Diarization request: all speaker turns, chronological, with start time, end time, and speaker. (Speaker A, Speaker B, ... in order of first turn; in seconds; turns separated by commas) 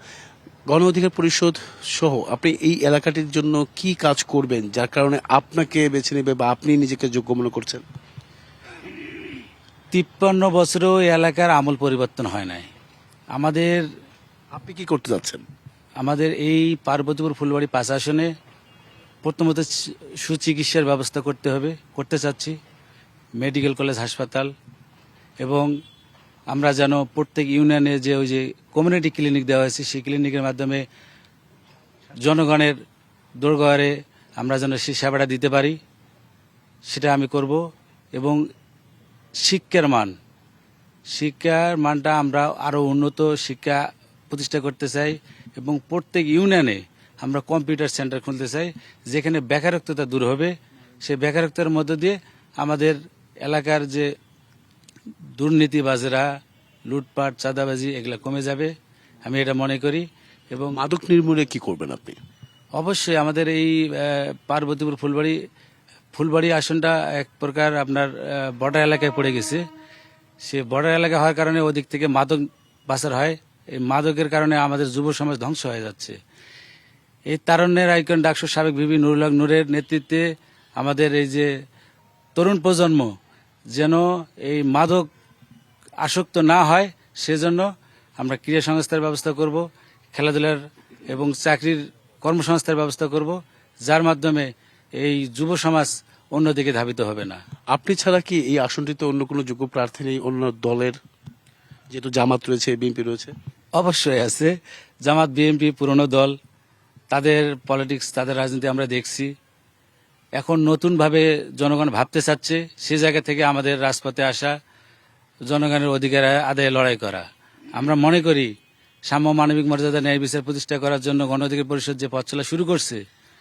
Speaker A: 0.7-7.8, Speaker B: 9.9-12.7, Speaker B: 13.3-13.8, Speaker A: 14.5-15.4, Speaker B: 16.0-18.3, Speaker B: 19.2-19.7, Speaker B: 20.2-22.6, Speaker B: 23.4-24.5, Speaker B: 25.4-25.7, Speaker B: 26.5-30.8, Speaker B: 32.2-32.8, Speaker B: 33.4-35.8, Speaker B: 36.9-37.6, Speaker B: 39.4-40.1, Speaker B: 41.1-43.8, Speaker B: 44.3-50.5, Speaker B: 51.0-54.1, Speaker B: 55.4-56.3, Speaker B: 56.9-58.7, Speaker B: 59.2-60.8, Speaker A: 60.7-62.2, Speaker B: 62.8-65.4, Speaker B: 66.2-69.6, Speaker B: 70.5-76.2, Speaker B: 77.3-80.2, Speaker B: 80.8-81.5, Speaker B: 82.4-83.1, Speaker B: 83.7-85.1, Speaker B: 86.0-87.7, Speaker B: 88.2-89.6, Speaker B: 90.2-90.6, Speaker B: 91.1-97.4, Speaker A: 97.7-101.0, Speaker A: 101.9-103.3, Speaker B: 103.8-104.5, Speaker B: 105.0-106.3, Speaker B: 107.1-109.3, Speaker B: 110.4-114.5, Speaker B: 115.5-117.3, Speaker B: 117.8-118.5, Speaker B: 119.1-123.0